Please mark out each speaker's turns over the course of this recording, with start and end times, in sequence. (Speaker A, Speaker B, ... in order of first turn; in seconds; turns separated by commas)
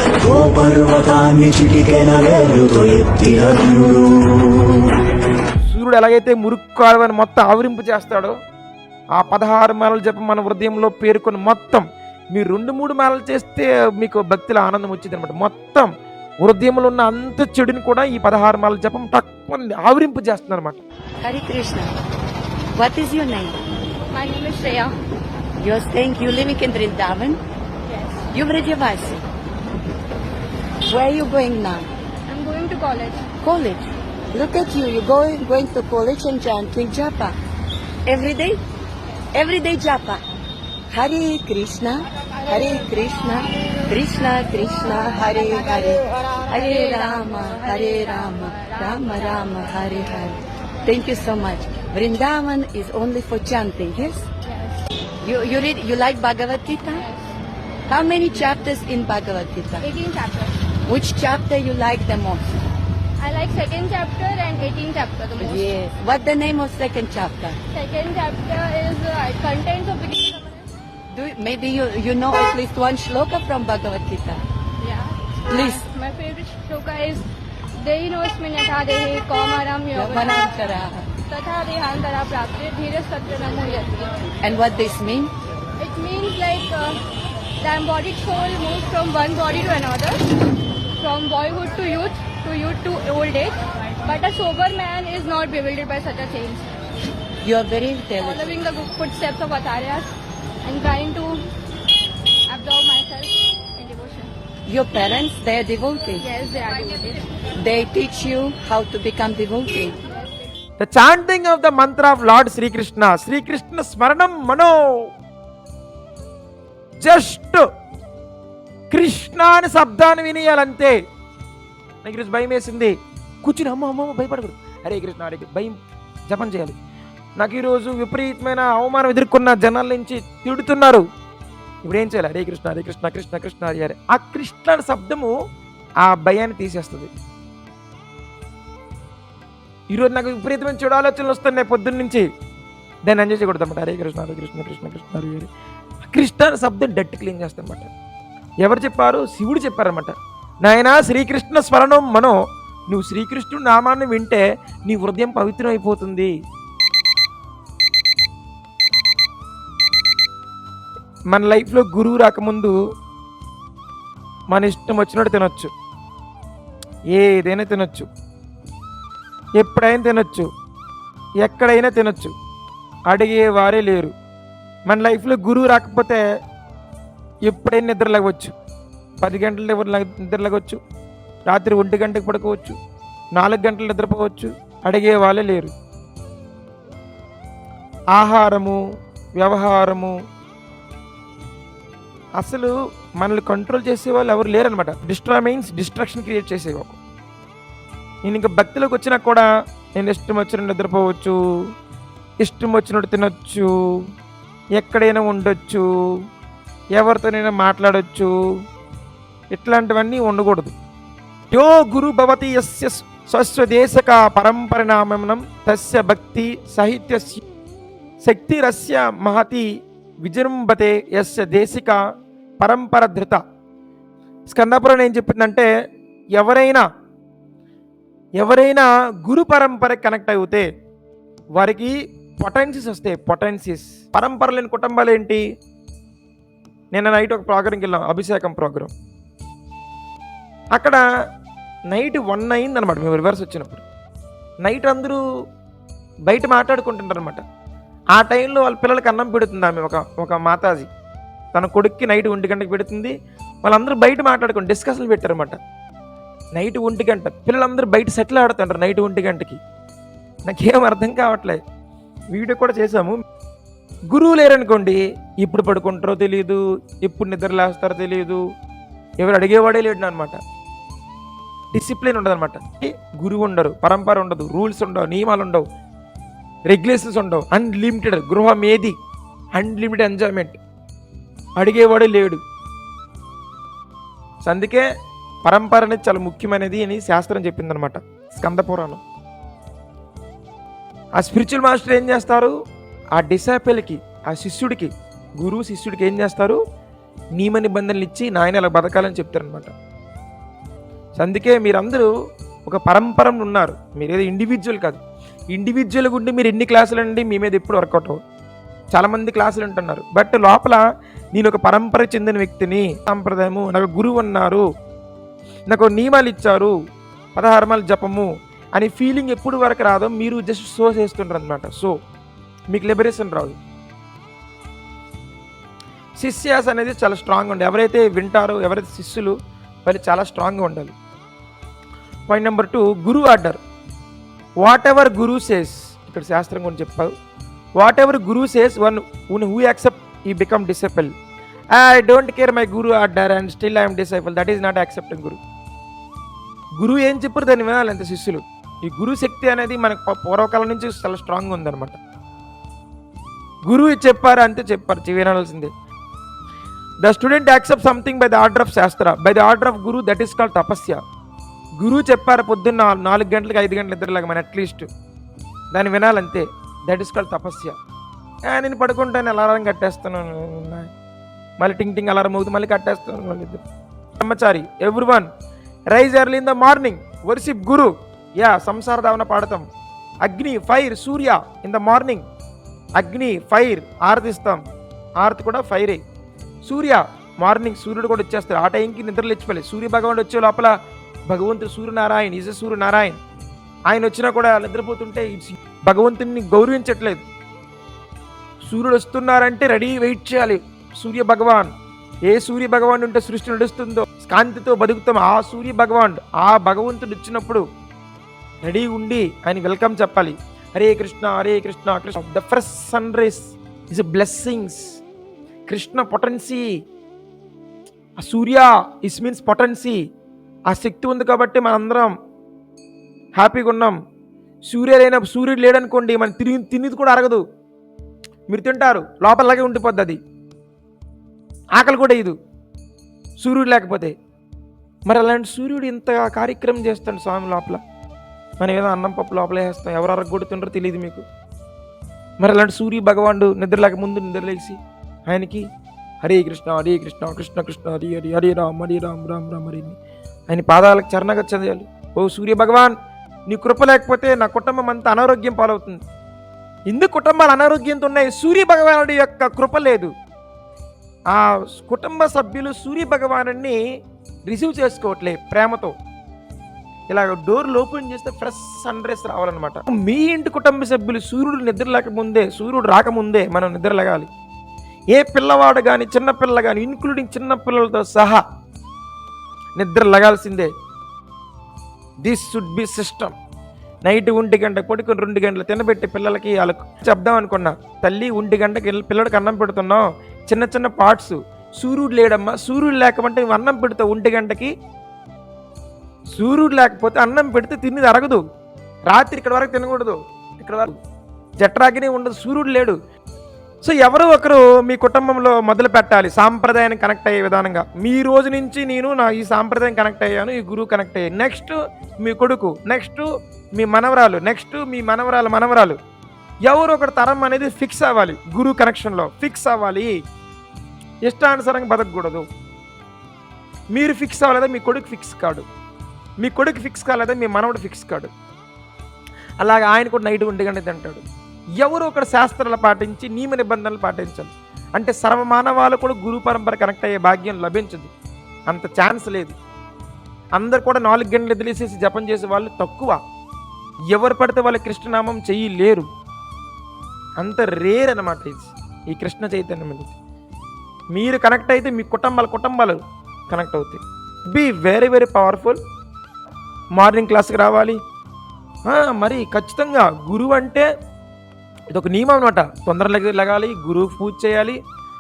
Speaker A: 0.2-4.9, Speaker B: 5.7-8.3, Speaker B: 9.2-15.9, Speaker B: 16.4-20.8, Speaker C: 21.2-21.9, Speaker C: 22.8-23.6, Speaker D: 24.1-24.9, Speaker C: 25.6-27.4, Speaker C: 28.3-29.2, Speaker C: 30.9-31.9, Speaker D: 32.3-33.3, Speaker C: 33.4-33.8, Speaker C: 34.3-37.4, Speaker C: 38.1-38.6, Speaker C: 39.3-40.2, Speaker C: 40.9-54.3, Speaker D: 47.1-48.8, Speaker D: 54.5-54.8, Speaker C: 55.2-57.1, Speaker C: 57.9-59.9, Speaker D: 59.8-60.6, Speaker C: 60.9-62.6, Speaker D: 63.2-65.7, Speaker C: 65.4-67.6, Speaker D: 67.7-70.7, Speaker C: 71.1-74.4, Speaker D: 74.8-80.6, Speaker C: 75.5-75.9, Speaker C: 80.0-81.1, Speaker D: 81.3-84.3, Speaker C: 84.4-85.3, Speaker D: 85.8-87.0, Speaker D: 87.6-90.3, Speaker D: 91.0-96.7, Speaker C: 97.4-98.5, Speaker D: 98.2-100.1, Speaker D: 100.6-101.4, Speaker D: 102.5-104.3, Speaker C: 104.7-106.3, Speaker D: 106.2-107.4, Speaker C: 107.6-110.0, Speaker B: 110.8-115.1, Speaker B: 117.0-117.7, Speaker B: 118.9-121.0, Speaker B: 122.0-125.8, Speaker B: 126.3-126.8, Speaker B: 127.4-131.1, Speaker B: 131.8-135.3, Speaker B: 136.0-137.1, Speaker B: 139.9-142.3, Speaker B: 143.1-145.5, Speaker B: 146.0-147.9, Speaker B: 148.6-152.3, Speaker B: 152.9-156.3, Speaker B: 161.3-162.8, Speaker B: 164.5-165.7, Speaker B: 167.1-168.1, Speaker B: 169.6-170.5, Speaker B: 171.4-172.3, Speaker B: 173.1-174.1, Speaker B: 174.9-176.2, Speaker B: 177.5-178.5, Speaker B: 179.2-180.8, Speaker B: 181.5-182.8, Speaker B: 183.4-185.7, Speaker B: 188.2-188.8, Speaker B: 189.4-190.2, Speaker B: 192.4-197.0, Speaker B: 198.2-201.4, Speaker B: 202.4-203.7, Speaker B: 204.8-205.8, Speaker B: 207.0-208.3, Speaker B: 209.5-210.7, Speaker B: 211.5-217.4, Speaker B: 218.2-219.7, Speaker B: 220.2-222.0, Speaker B: 222.6-223.4, Speaker B: 224.5-225.7, Speaker B: 226.4-226.8, Speaker B: 228.4-230.7, Speaker B: 231.6-235.4, Speaker B: 236.9-238.9, Speaker B: 240.7-241.0, Speaker B: 241.9-243.8, Speaker B: 244.6-245.2, Speaker B: 246.3-247.4, Speaker B: 248.2-250.9, Speaker B: 251.5-255.6, Speaker B: 256.6-259.6, Speaker B: 260.5-261.6, Speaker B: 262.3-263.1, Speaker B: 264.1-268.4, Speaker B: 269.2-270.4, Speaker B: 271.7-275.7, Speaker B: 276.7-278.9, Speaker B: 279.6-280.6, Speaker B: 281.6-282.4, Speaker B: 284.4-284.9, Speaker B: 285.4-289.0, Speaker B: 291.2-292.6, Speaker B: 293.1-296.6, Speaker B: 297.4-299.7, Speaker B: 301.2-302.1, Speaker B: 302.7-305.0, Speaker B: 305.5-308.2, Speaker B: 308.9-310.8, Speaker B: 311.4-314.6, Speaker B: 315.7-316.7, Speaker B: 317.4-321.9, Speaker B: 322.7-323.6, Speaker B: 326.2-329.4, Speaker B: 329.9-330.9, Speaker B: 332.3-333.6, Speaker B: 334.6-337.1, Speaker B: 337.8-341.1, Speaker B: 341.7-345.4, Speaker B: 346.8-352.0, Speaker B: 353.7-355.7, Speaker B: 357.0-361.0, Speaker B: 361.8-364.9, Speaker B: 365.7-367.8, Speaker B: 368.5-370.9, Speaker B: 371.6-373.6, Speaker B: 374.2-375.3, Speaker B: 375.9-379.6, Speaker B: 380.2-382.2, Speaker B: 383.0-384.6, Speaker B: 385.2-386.0, Speaker B: 386.6-390.7, Speaker B: 391.3-393.2, Speaker B: 393.9-397.2, Speaker B: 398.7-401.7, Speaker B: 402.3-407.6, Speaker B: 408.6-414.8, Speaker B: 415.7-416.7, Speaker B: 418.2-420.0, Speaker B: 420.7-422.1, Speaker B: 423.4-424.0, Speaker B: 424.7-427.4, Speaker B: 428.5-430.2, Speaker B: 431.8-432.4, Speaker B: 433.4-434.1, Speaker B: 435.1-437.8, Speaker B: 438.6-441.2, Speaker B: 442.4-445.6, Speaker B: 446.2-450.0, Speaker B: 450.5-452.9, Speaker B: 453.5-456.0, Speaker B: 456.9-460.1, Speaker B: 461.3-463.8, Speaker B: 464.5-465.9, Speaker B: 467.1-474.3, Speaker B: 475.1-478.4, Speaker B: 479.8-480.7, Speaker B: 482.2-483.4, Speaker B: 484.1-494.7, Speaker B: 496.3-498.4, Speaker B: 499.1-501.0, Speaker B: 501.6-503.0, Speaker B: 503.8-516.0, Speaker B: 516.6-520.1, Speaker B: 521.3-522.5, Speaker B: 523.9-525.6, Speaker B: 526.4-528.3, Speaker B: 529.6-531.2, Speaker B: 531.8-538.1, Speaker B: 538.7-539.5, Speaker B: 540.6-543.2, Speaker B: 544.1-546.1, Speaker B: 547.4-550.1, Speaker B: 551.1-553.0, Speaker B: 553.5-555.8, Speaker B: 557.0-558.0, Speaker B: 558.9-560.9, Speaker B: 561.9-564.8